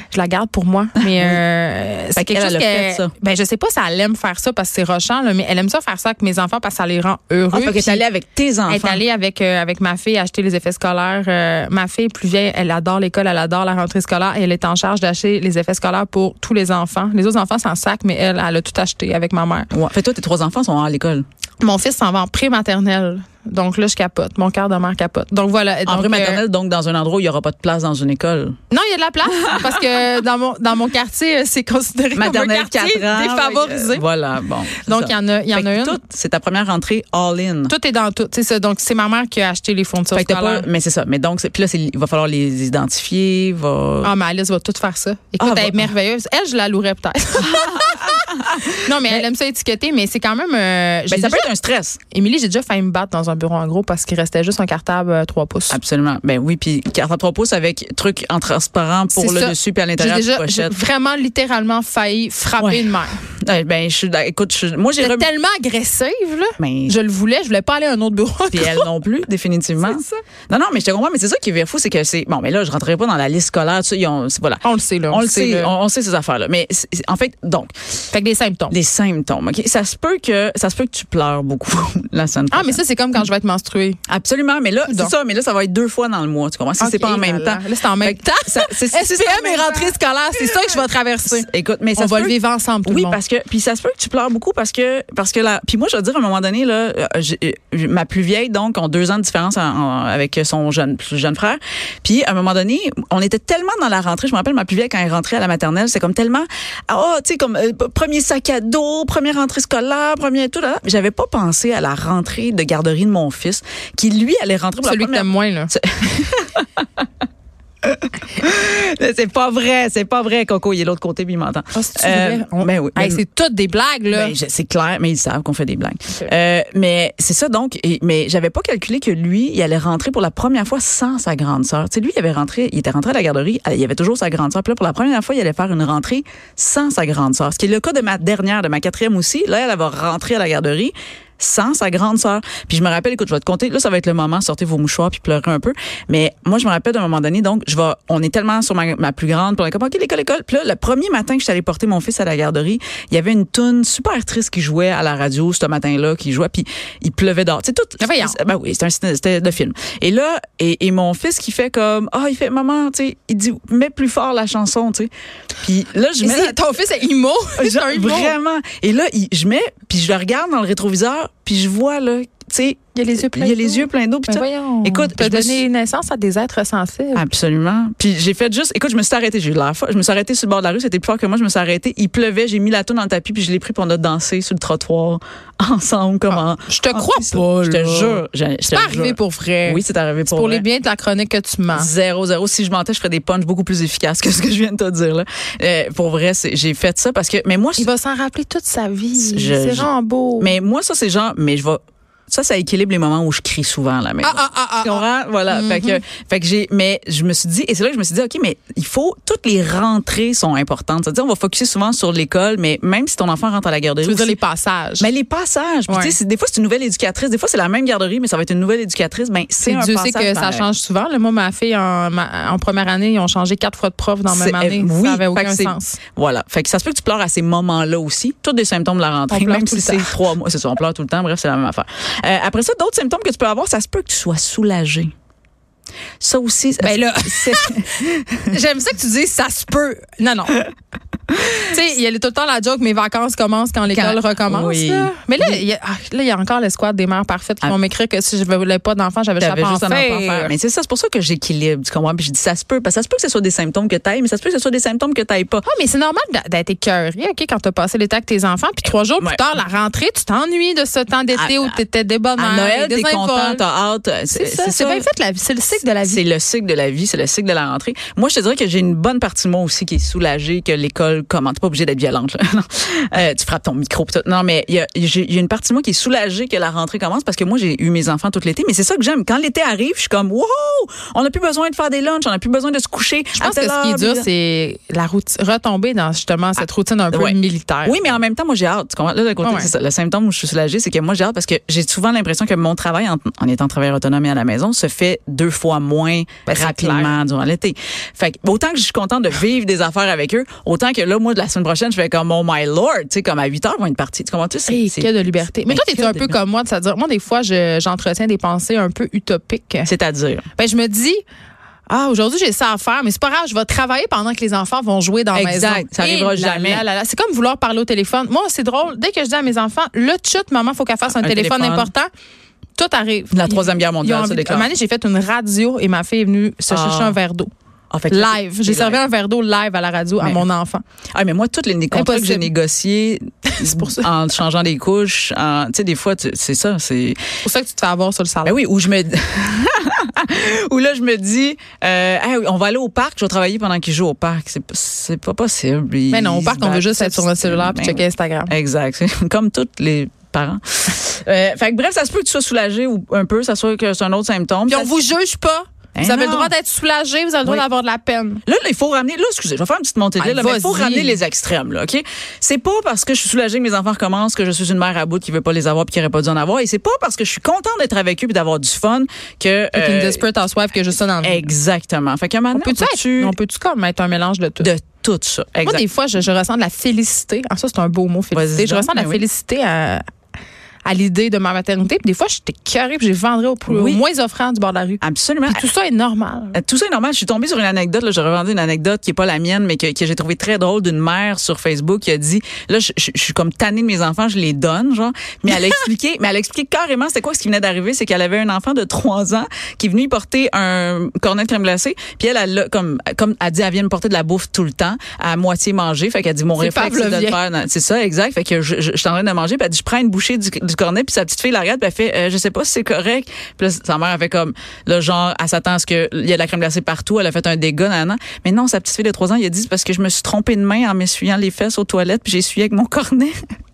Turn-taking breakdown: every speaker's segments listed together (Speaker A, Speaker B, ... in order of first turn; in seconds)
Speaker A: 0.1-8.0, 8.7-19.7, 21.6-26.4, 28.7-34.0, 34.8-36.0, 37.7-40.7, 44.0-51.5, 52.1-55.8, 59.1-63.2, 65.0-68.9, 69.8-70.2, 74.6-75.7, 78.1-78.7, 82.5-84.0, 84.9-85.1, 86.8-93.2, 114.8-115.7, 121.7-124.3, 158.0-158.4, 166.2-168.3, 172.9-177.2, 186.3-191.9, 197.8-200.5, 204.2-206.0, 214.0-215.1, 215.9-216.1, 219.6-226.0, 229.3-230.2, 236.8-240.6, 241.6-250.5, 255.6-263.6, 264.3-266.2, 283.4-288.2, 289.4-289.7, 296.4-297.1, 304.7-309.9, 310.6-311.2, 311.9-322.1, 322.8-327.5, 328.1-330.8, 331.9-332.5, 333.5-334.1, 337.4-338.6, 346.1-348.5, 354.7-358.4, 360.2-361.2, 369.7-371.5, 372.5-374.7, 375.6-380.0, 380.9-386.6, 406.6-407.4
Speaker B: 1.0-1.4, 2.1-3.1, 7.5-9.0, 19.7-21.2, 25.9-28.6, 32.1-37.7, 40.1-44.1, 45.4-45.9, 47.4-49.2, 51.1-52.0, 55.7-60.8, 62.6-65.3, 66.6-66.9, 68.5-77.7, 78.7-82.8, 84.1-92.3, 92.8-117.1, 117.8-123.2, 124.1-165.1, 165.6-166.6, 167.6-175.6, 177.1-190.6, 191.7-197.9, 199.2-201.8, 202.3-214.4, 215.0-220.7, 224.3-235.1, 236.2-238.5, 241.3-241.6, 243.9-245.6, 249.4-255.6, 261.3-261.8, 262.4-265.1, 266.0-284.2, 287.1-305.1, 305.7-306.4, 309.9-310.4, 315.3-316.8, 321.1-321.9, 323.3-324.7, 326.7-327.2, 327.9-329.0, 331.1-337.2, 338.4-354.9, 355.9-356.5, 358.5-370.2, 371.2-373.3, 374.6-375.8, 378.3-379.2, 383.7-384.0, 385.0-385.6, 386.5-423.4